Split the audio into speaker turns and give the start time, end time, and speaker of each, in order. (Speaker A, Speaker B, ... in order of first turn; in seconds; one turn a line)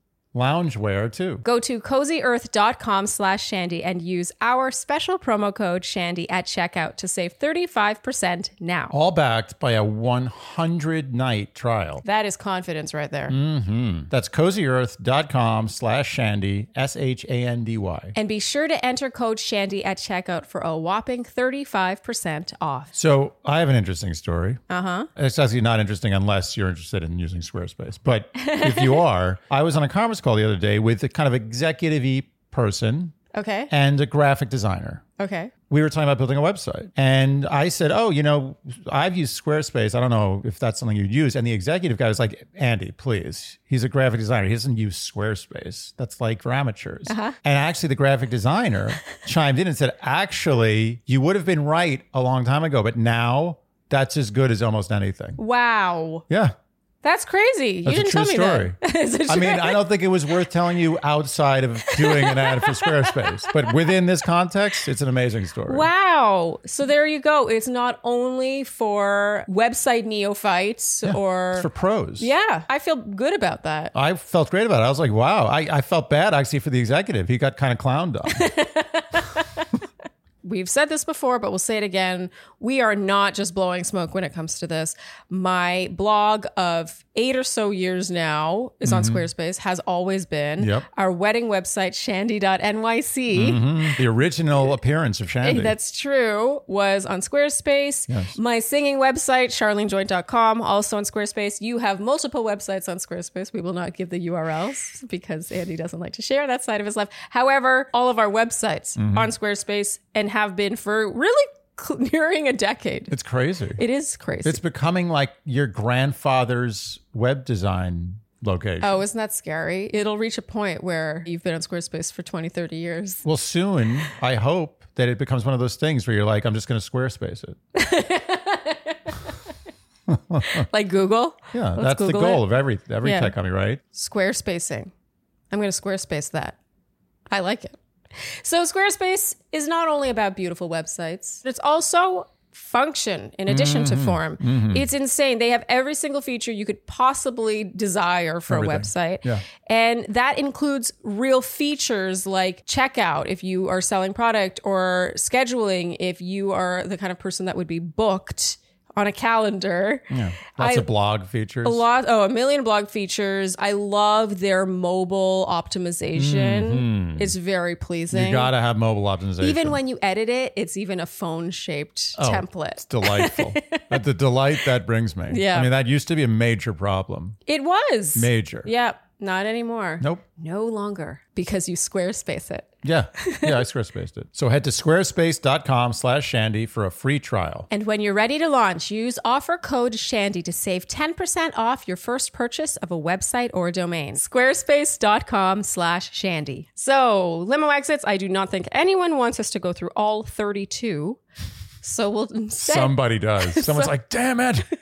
Speaker A: 0.3-1.4
Speaker B: 1.4-8.9
Speaker A: 8.9-12.0
Speaker B: 12.0-13.3
Speaker A: 13.3-18.1
Speaker B: 18.1-22.9
Speaker A: 22.9-24.6
Speaker B: 24.7-25.1
Speaker A: 25.1-33.1
Speaker B: 28.4-29.0
Speaker B: 33.3-33.7
Speaker A: 33.7-35.0
Speaker B: 35.2-35.5
Speaker A: 35.7-55.4
Speaker B: 47.1-47.4
Speaker B: 55.4-56.2
Speaker A: 56.3-56.5
Speaker B: 57.0-59.8
Speaker A: 57.8-65.9
Speaker B: 61.9-64.0
Speaker B: 65.7-71.7
Speaker A: 71.0-72.3
Speaker B: 72.2-73.9
Speaker A: 73.9-78.5
Speaker B: 78.3-79.7
Speaker B: 80.4-94.0
Speaker A: 88.8-89.2
Speaker A: 90.6-90.9
Speaker A: 93.3-95.7
Speaker B: 95.4-113.1
Speaker A: 98.1-98.4
Speaker A: 109.0-109.3
Speaker A: 113.1-113.8
Speaker B: 113.8-114.6
Speaker A: 114.4-119.0
Speaker B: 118.8-123.2
Speaker A: 123.2-127.6
Speaker B: 127.7-129.3
Speaker A: 130.1-130.7
Speaker B: 130.4-132.4
Speaker A: 131.5-133.8
Speaker B: 133.0-133.3
Speaker B: 133.9-134.9
Speaker B: 135.5-136.6
Speaker B: 137.3-160.9
Speaker A: 143.5-144.9
Speaker A: 148.5-149.4
Speaker A: 160.1-161.8
Speaker B: 161.6-168.5
Speaker A: 166.2-167.3
Speaker A: 168.1-169.8
Speaker B: 169.4-174.0
Speaker A: 172.2-177.4
Speaker B: 175.3-175.7
Speaker B: 177.5-183.6
Speaker A: 178.1-178.7
Speaker A: 182.8-187.7
Speaker B: 187.7-201.2
Speaker B: 201.8-203.9
Speaker A: 202.6-204.7